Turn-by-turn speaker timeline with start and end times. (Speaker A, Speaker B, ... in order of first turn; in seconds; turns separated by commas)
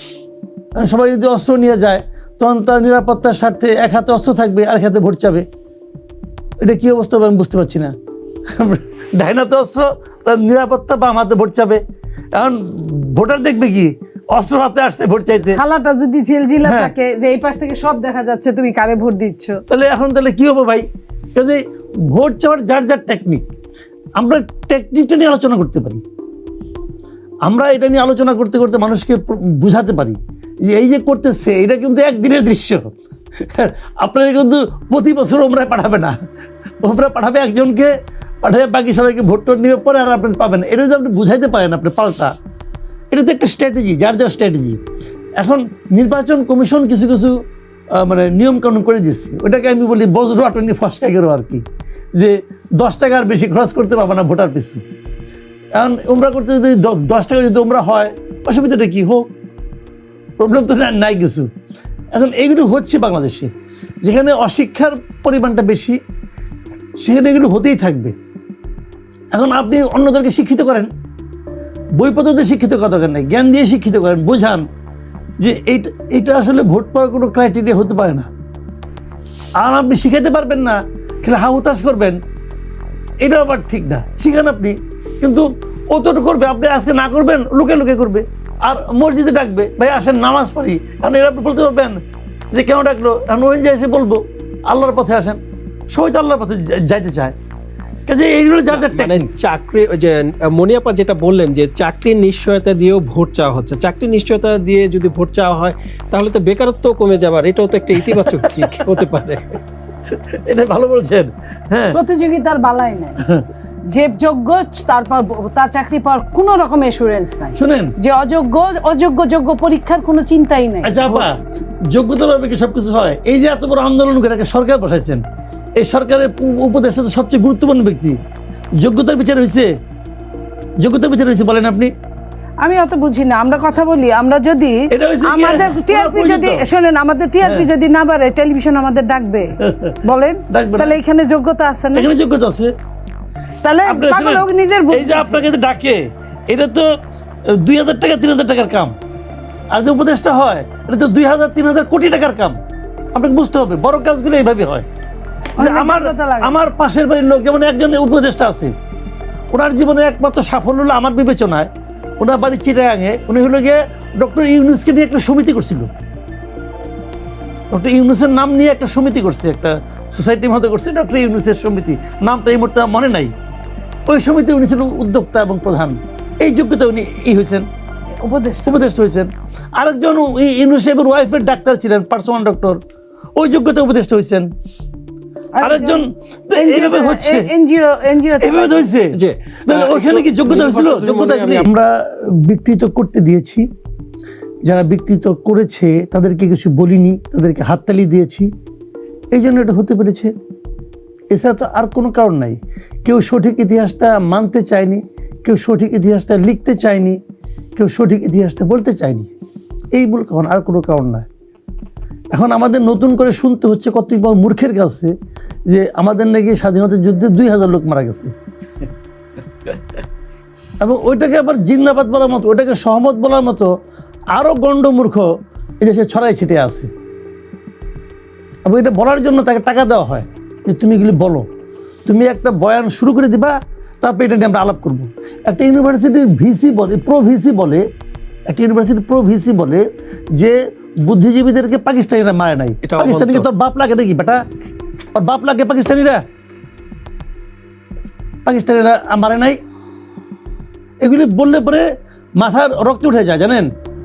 Speaker A: 0.8-5.5, Speaker A: 6.6-7.9, Speaker A: 8.5-11.8, Speaker A: 12.3-15.6, Speaker B: 15.5-19.6, Speaker A: 16.6-16.9, Speaker A: 19.7-23.4, Speaker A: 24.2-26.0, Speaker A: 27.4-36.2, Speaker A: 36.8-42.4, Speaker A: 43.1-44.8, Speaker A: 45.4-47.4, Speaker A: 47.9-51.6, Speaker A: 52.2-54.8, Speaker A: 55.8-59.3, Speaker A: 60.4-61.5, Speaker A: 62.1-63.5, Speaker A: 64.0-66.0, Speaker A: 67.0-68.2, Speaker A: 69.3-70.9, Speaker A: 72.0-74.7, Speaker A: 75.4-78.3, Speaker A: 79.6-82.2, Speaker A: 83.2-92.0, Speaker A: 92.5-95.4, Speaker A: 95.9-97.3, Speaker A: 98.1-99.3, Speaker C: 98.7-109.6, Speaker A: 108.3-108.8, Speaker A: 110.1-112.0, Speaker B: 111.9-113.2, Speaker A: 113.2-113.5, Speaker B: 113.9-121.3, Speaker A: 117.5-118.0, Speaker A: 120.8-125.2, Speaker A: 125.8-128.2, Speaker A: 128.8-129.7, Speaker A: 130.8-131.9, Speaker B: 132.6-142.1, Speaker A: 134.9-136.7, Speaker A: 137.4-137.7, Speaker A: 139.6-140.0, Speaker A: 140.5-140.9, Speaker A: 141.9-142.7, Speaker B: 143.6-145.4, Speaker A: 143.8-146.9, Speaker A: 147.5-148.9, Speaker A: 149.7-152.6, Speaker A: 153.1-154.9, Speaker B: 155.6-156.6, Speaker A: 155.6-158.7, Speaker A: 159.5-165.9, Speaker A: 167.7-173.3, Speaker A: 174.1-177.7, Speaker B: 178.2-178.9, Speaker A: 178.7-182.8, Speaker A: 183.4-184.5, Speaker B: 185.6-186.0, Speaker A: 185.6-187.5, Speaker B: 186.6-188.9, Speaker A: 188.4-193.7, Speaker C: 189.1-191.7, Speaker A: 194.7-198.5, Speaker A: 199.3-200.3, Speaker A: 201.3-207.2, Speaker A: 207.8-209.3, Speaker A: 209.9-211.3, Speaker A: 212.3-215.1, Speaker A: 215.7-218.3, Speaker A: 220.8-223.7, Speaker A: 224.3-225.3, Speaker A: 225.8-226.9, Speaker A: 228.7-231.4, Speaker A: 232.1-237.8, Speaker A: 238.5-239.8, Speaker A: 240.3-244.4, Speaker C: 242.8-243.5, Speaker A: 245.2-246.2, Speaker A: 248.5-249.6, Speaker A: 251.0-251.9, Speaker A: 252.4-253.7